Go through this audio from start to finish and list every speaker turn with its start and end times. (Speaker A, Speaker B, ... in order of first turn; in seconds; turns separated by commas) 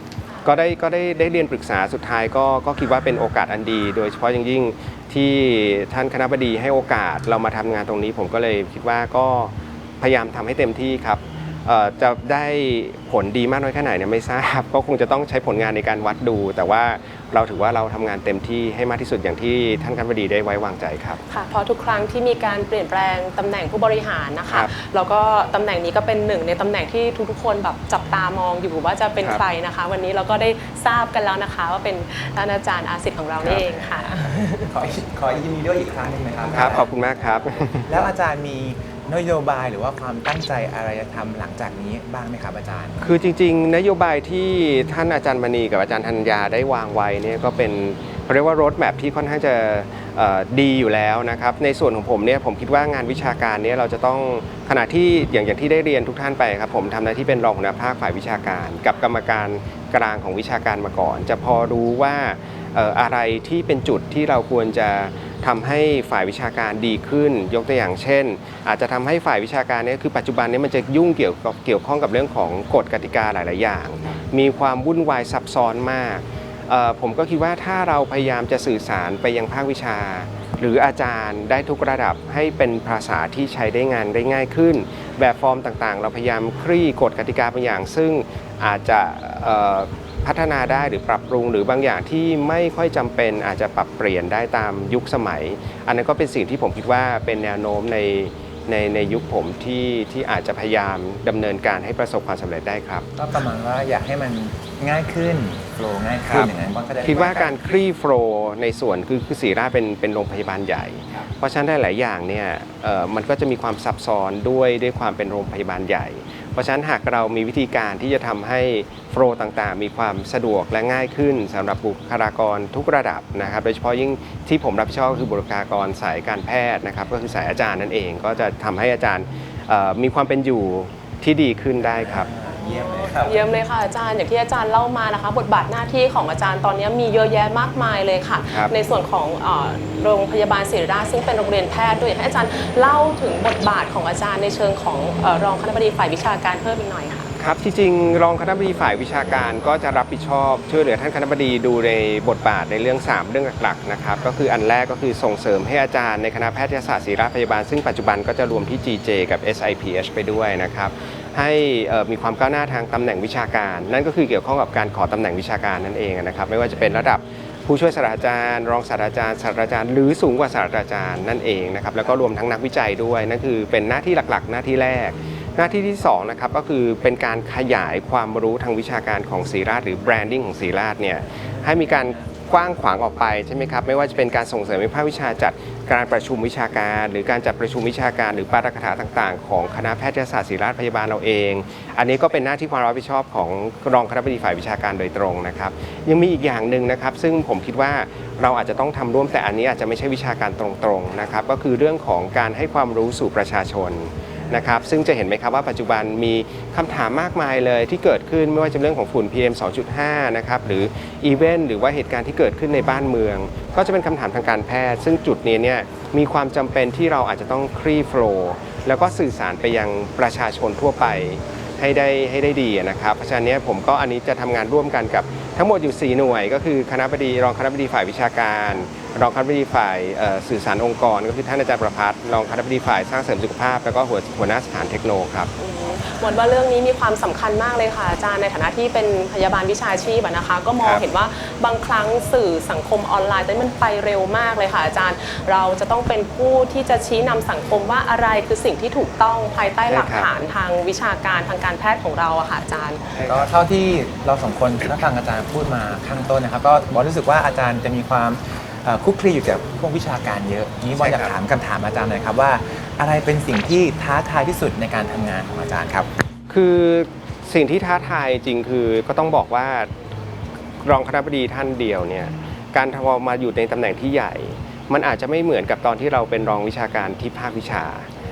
Speaker A: 0.4-21.2, Speaker B: 21.3-34.7, Speaker C: 33.4-36.9, Speaker A: 36.5-37.9, Speaker C: 37.9-43.1, Speaker A: 43.0-103.1, Speaker C: 103.2-107.5, Speaker A: 107.0-132.3, Speaker C: 131.9-133.5, Speaker B: 132.4-147.3, Speaker A: 147.4-235.5, Speaker B: 235.6-253.0, Speaker A: 249.9-250.3, Speaker A: 253.1-253.5, Speaker C: 253.2-266.1, Speaker A: 261.0-261.3, Speaker A: 266.5-269.9, Speaker A: 270.8-278.1